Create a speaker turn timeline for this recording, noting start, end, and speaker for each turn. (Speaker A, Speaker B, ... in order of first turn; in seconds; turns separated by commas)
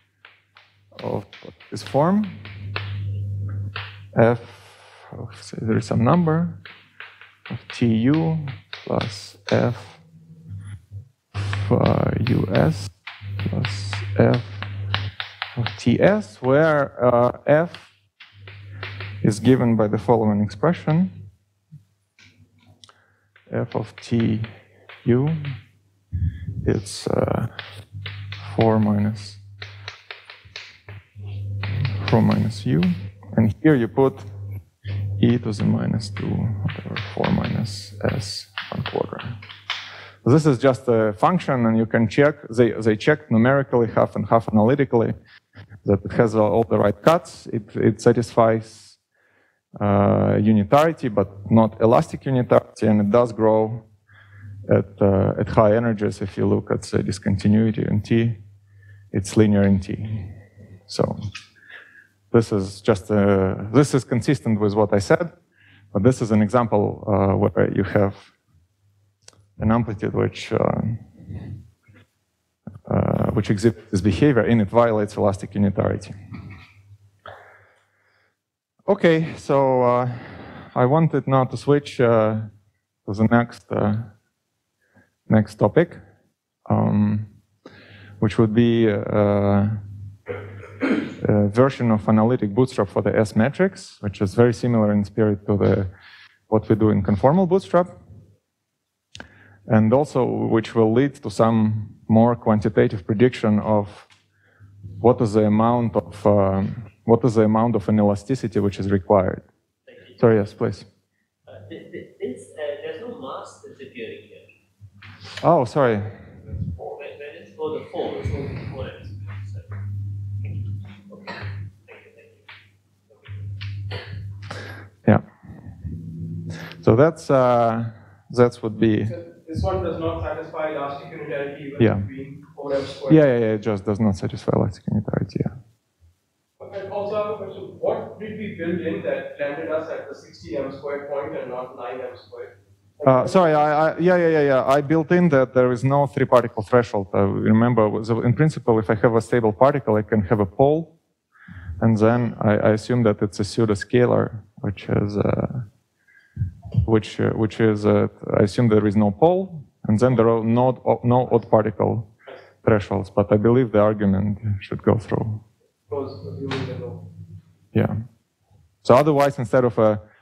Speaker A: 1.0-2.4, Speaker A: 4.1-6.6, Speaker A: 7.5-10.0, Speaker A: 11.4-12.9, Speaker A: 13.4-14.6, Speaker A: 15.6-17.9, Speaker A: 19.2-21.2, Speaker A: 23.5-24.5, Speaker A: 25.0-25.6, Speaker A: 26.6-27.6, Speaker A: 28.4-29.4, Speaker A: 32.0-34.3, Speaker A: 35.2-39.4, Speaker A: 40.2-45.1, Speaker A: 45.9-49.0, Speaker A: 49.8-53.9, Speaker A: 54.7-58.4, Speaker A: 59.1-60.3, Speaker A: 60.9-61.2, Speaker A: 62.3-65.3, Speaker A: 65.9-68.3, Speaker A: 69.6-71.4, Speaker A: 72.9-76.2, Speaker A: 78.9-82.5, Speaker A: 83.1-84.1, Speaker A: 85.3-86.0, Speaker A: 86.7-87.3, Speaker A: 88.2-89.8, Speaker A: 91.2-95.9, Speaker A: 96.5-98.0, Speaker A: 99.7-104.1, Speaker A: 105.0-109.5, Speaker B: 109.9-110.2, Speaker A: 110.2-110.9, Speaker B: 111.5-114.5, Speaker A: 115.4-116.2, Speaker B: 116.9-119.8, Speaker B: 121.9-122.4, Speaker A: 126.8-129.1, Speaker C: 129.1-133.2, Speaker A: 131.8-132.1, Speaker A: 133.1-135.6, Speaker C: 136.6-143.7, Speaker A: 143.1-150.9, Speaker A: 151.8-155.7, Speaker A: 156.8-162.1, Speaker A: 162.6-165.4, Speaker C: 165.9-167.1, Speaker A: 168.8-170.0